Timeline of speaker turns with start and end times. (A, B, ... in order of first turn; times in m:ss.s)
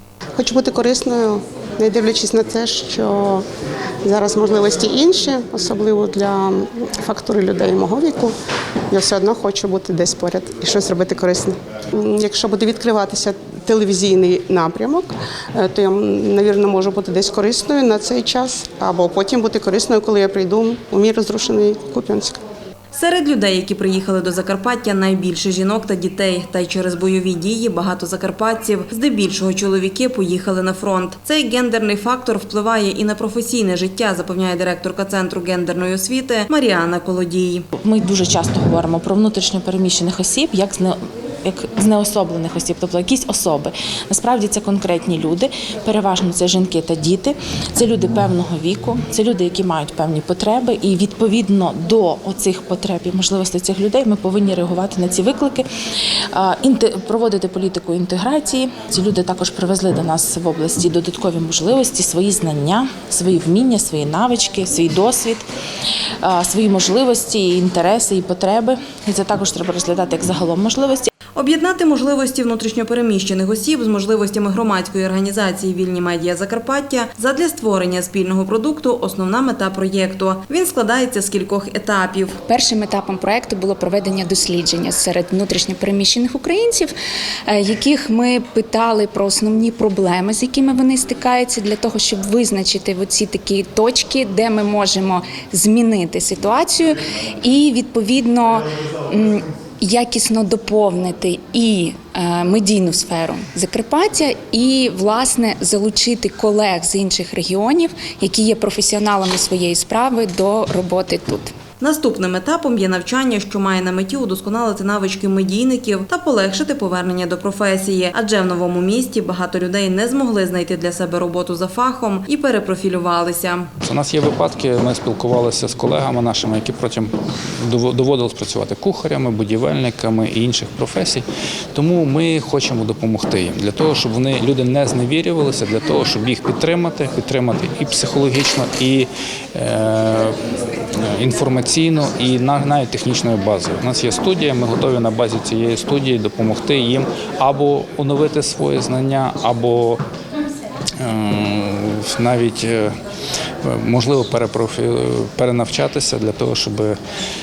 0:00.4-0:03.4 A
0:04.0-0:08.3 A
0:08.9-0:22.4 A
0:22.9-0:37.7 B
0:37.8-0:55.7 C
0:56.3-1:05.5 C
1:06.2-1:11.1 C
1:11.4-1:22.4 B
1:22.5-1:26.9 D
1:27.5-1:51.5 D
1:51.8-2:03.7 B
2:03.8-2:07.1 E
2:07.7-2:20.3 E
2:21.0-2:30.0 E
2:31.0-2:32.9 E
2:33.6-2:37.0 E